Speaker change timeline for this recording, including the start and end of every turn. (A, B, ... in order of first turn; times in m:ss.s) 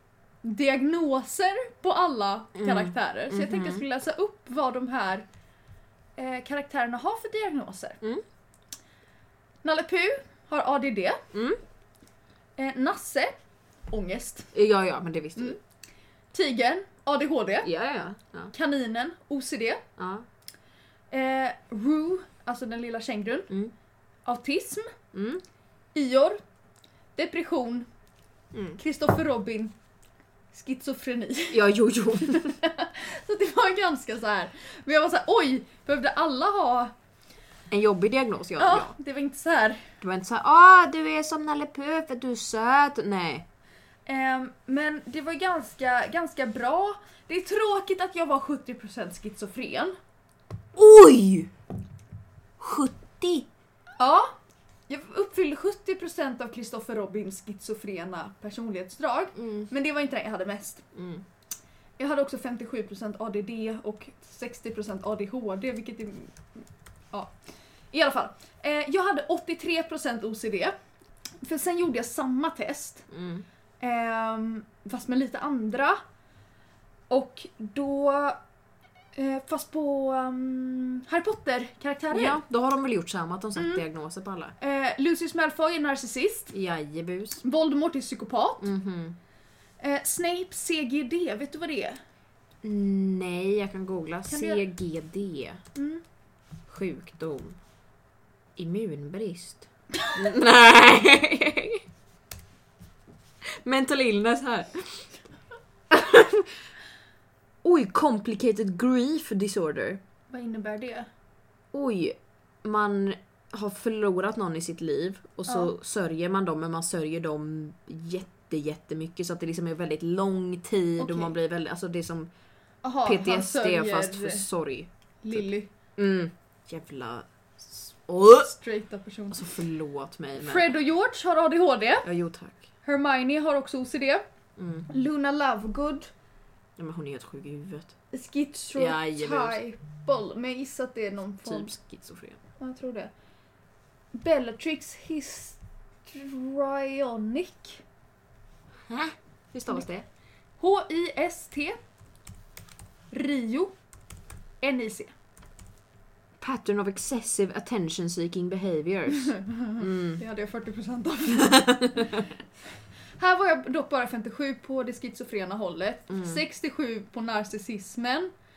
0:00.4-0:05.2 A
0:02.6-0:03.8 B
0:06.2-0:08.0 A
0:09.6-0:11.2 A
0:11.3-0:11.6 B
0:12.6-0:13.3 A
0:13.9-0:14.5 A
0:14.5-0:15.6 B
0:16.3-0:17.7 A
0:17.6-0:18.5 B
0:18.5-0:19.8 A
0:20.0-0:20.2 B
0:21.1-0:23.5 A
0:24.2-0:24.9 A
0:25.1-0:25.4 B
0:25.9-0:26.4 A
0:27.2-0:27.9 A
0:28.8-0:29.8 A
0:30.5-0:36.9 A
0:31.5-0:32.6 B
0:37.7-0:38.9 B
0:38.6-0:39.8 A
0:40.0-0:43.5 B
0:44.1-0:50.0 A
0:50.8-0:51.5 B
0:52.6-0:53.5 B
0:54.0-0:54.4 A
0:54.9-1:00.8 A
0:59.4-0:59.7 B
1:01.0-1:01.2 B
1:02.0-1:07.4 A
1:07.9-1:10.7 A
1:11.4-1:13.1 A
1:13.1-1:13.4 B
1:13.8-1:16.0 A
1:17.1-1:18.4 A
1:19.1-1:22.4 A
1:22.1-1:24.6 B
1:23.6-1:23.8 A
1:24.6-1:26.5 A
1:26.5-1:27.4 B
1:27.4-1:28.7 A
1:28.6-1:29.2 B
1:29.8-1:32.0 A
1:32.6-1:35.6 B
1:34.3-1:34.6 A
1:35.8-1:36.0 A
1:36.7-1:37.6 B
1:38.6-1:41.8 B
1:43.6-1:45.1 B
1:45.9-1:46.5 B
1:47.6-1:50.0 B
1:50.3-1:51.1 A
1:51.7-2:02.3 B
1:55.5-1:55.7 A
2:01.0-2:01.3 A
2:02.8-2:04.5 A
2:03.0-2:08.5 B
2:05.2-2:05.7 A
2:08.4-2:09.5 A
2:09.3-2:10.7 B
2:10.4-2:12.1 A
2:12.0-2:12.6 B
2:12.8-2:14.2 A
2:14.6-2:14.9 B
2:14.9-2:16.1 A
2:16.8-2:18.0 B
2:18.1-2:21.7 A
2:18.8-2:19.6 B
2:21.4-2:22.4 B
2:22.6-2:23.1 A
2:24.1-2:27.8 A
2:28.9-2:30.0 B
2:30.6-2:31.8 A
2:33.1-2:33.8 A
2:34.6-2:35.1 A
2:36.4-2:40.2 B
2:39.2-2:42.2 A
2:41.4-2:42.2 B
2:43.2-2:48.3 A
2:46.1-2:46.4 B